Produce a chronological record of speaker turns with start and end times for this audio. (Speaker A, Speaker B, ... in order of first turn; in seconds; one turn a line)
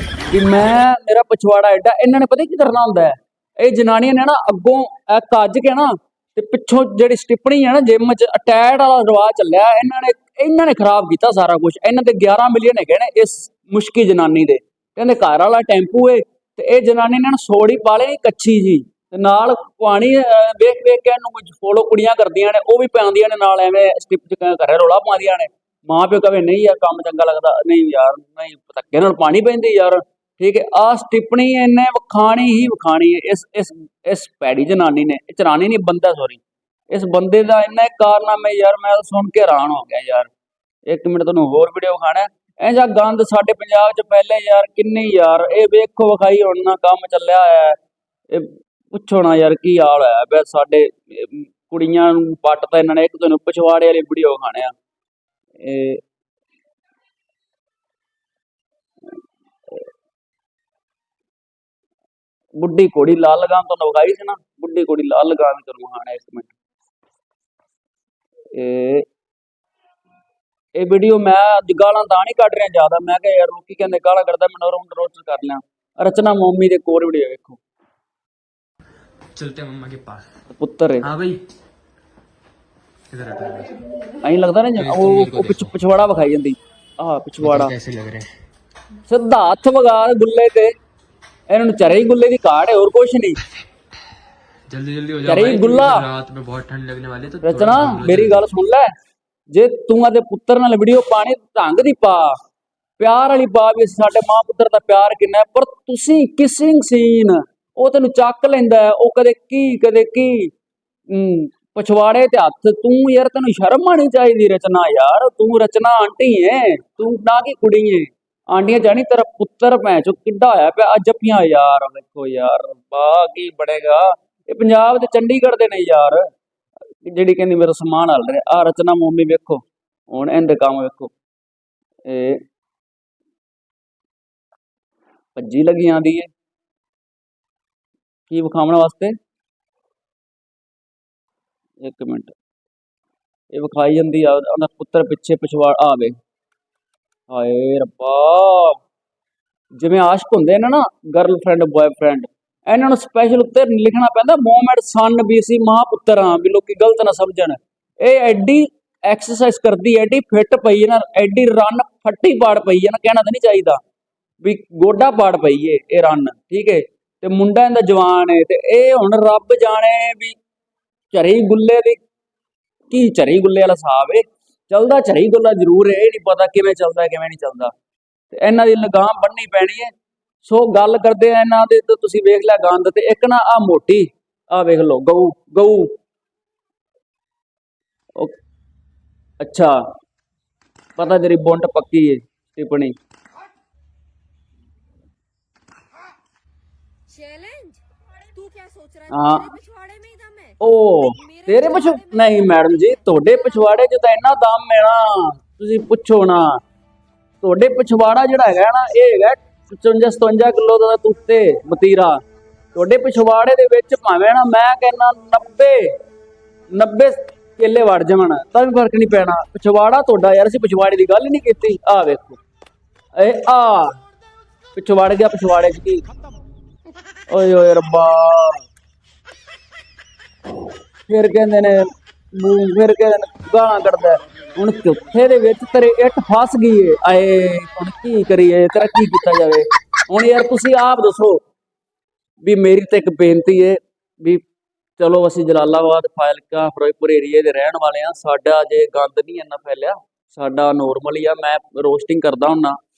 Speaker A: 0.3-40.3
Speaker A: 40.9-47.8
Speaker A: 48.3-54.7
Speaker A: 55.6-56.0
Speaker A: 62.6-66.5
Speaker A: 68.5-69.1
Speaker A: 70.8-77.6
Speaker B: 79.3-80.2
Speaker A: 80.5-81.1
Speaker B: 81.0-81.4
Speaker B: 83.1-83.8
Speaker A: 84.2-87.8
Speaker B: 84.8-85.7
Speaker B: 87.4-88.3
Speaker A: 89.1-90.7
Speaker A: 91.5-93.4
Speaker B: 94.7-98.5
Speaker A: 95.2-96.1
Speaker A: 97.4-98.9
Speaker A: 99.5-102.4
Speaker A: 103.0-110.5
Speaker A: 111.1-126.3
Speaker A: 127.0-131.1
Speaker A: 132.1-132.4
Speaker A: 135.4-136.3
Speaker A: 138.3-139.2
Speaker A: 141.8-142.3
Speaker A: 143.5-146.2
Speaker A: 147.3-148.8
Speaker A: 149.8-163.8
Speaker A: 164.4-170.4
Speaker A: 171.1-172.0
Speaker A: 172.9-177.7
Speaker A: 178.3-179.9
Speaker A: 180.4-185.9
Speaker A: 189.4-189.8
Speaker A: 191.0-192.9
Speaker C: 197.1-202.7
Speaker A: 199.1-199.5
Speaker A: 200.6-206.6
Speaker C: 203.3-203.8
Speaker A: 207.4-212.2
Speaker A: 212.7-215.9
Speaker A: 216.7-222.4
Speaker A: 223.2-224.0
Speaker A: 224.8-226.1
Speaker A: 227.3-228.6
Speaker A: 231.1-241.4
Speaker A: 242.4-244.4
Speaker A: 245.0-252.8